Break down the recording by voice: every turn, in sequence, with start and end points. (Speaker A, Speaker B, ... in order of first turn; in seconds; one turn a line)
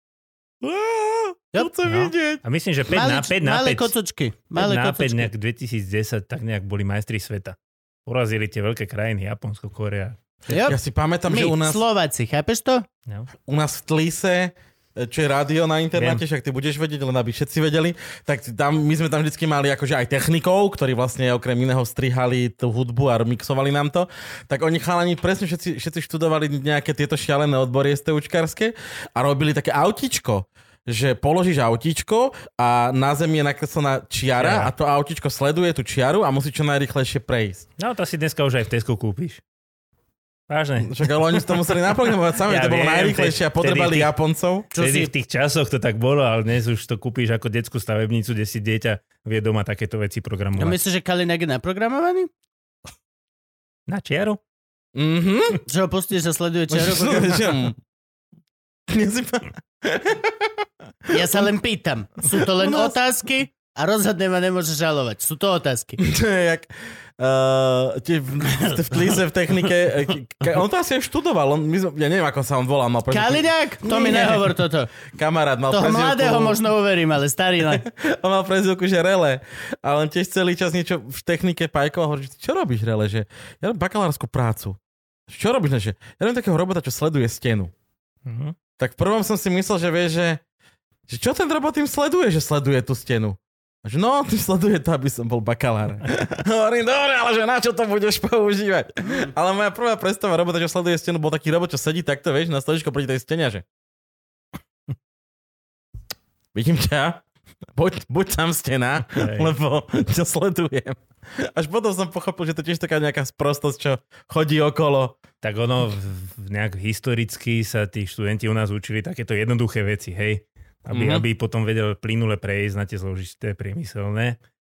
Speaker A: 0.6-2.4
Speaker B: 1.8-3.9
Speaker C: 2.9-5.3
Speaker B: 4.5-10.6
Speaker C: 10.5-12.8
Speaker A: 10.7-11.8
Speaker A: 13.4-37.6
Speaker B: 15.9-16.2
Speaker B: 34.4-34.7
Speaker B: 37.8-39.4
Speaker B: 40.5-41.9
Speaker A: 40.8-44.7
Speaker B: 42.4-44.1
Speaker C: 44.7-45.1
Speaker B: 44.7-50.8
Speaker C: 50.6-52.3
Speaker B: 53.9-54.4
Speaker A: 54.9-55.6
Speaker C: 55.6-57.5
Speaker A: 56.7-57.8
Speaker A: 58.9-61.5
Speaker C: 61.1-66.0
Speaker A: 62.3-63.0
Speaker A: 66.0-74.5
Speaker C: 68.6-69.1
Speaker C: 73.1-74.9
Speaker A: 75.1-76.6
Speaker C: 75.7-77.8
Speaker A: 77.7-87.7
Speaker B: 88.2-88.5
Speaker A: 88.8-90.4
Speaker A: 91.1-103.6
Speaker A: 106.5-107.2
Speaker A: 107.8-115.2
Speaker B: 109.2-109.5
Speaker B: 115.4-124.4
Speaker A: 120.9-121.2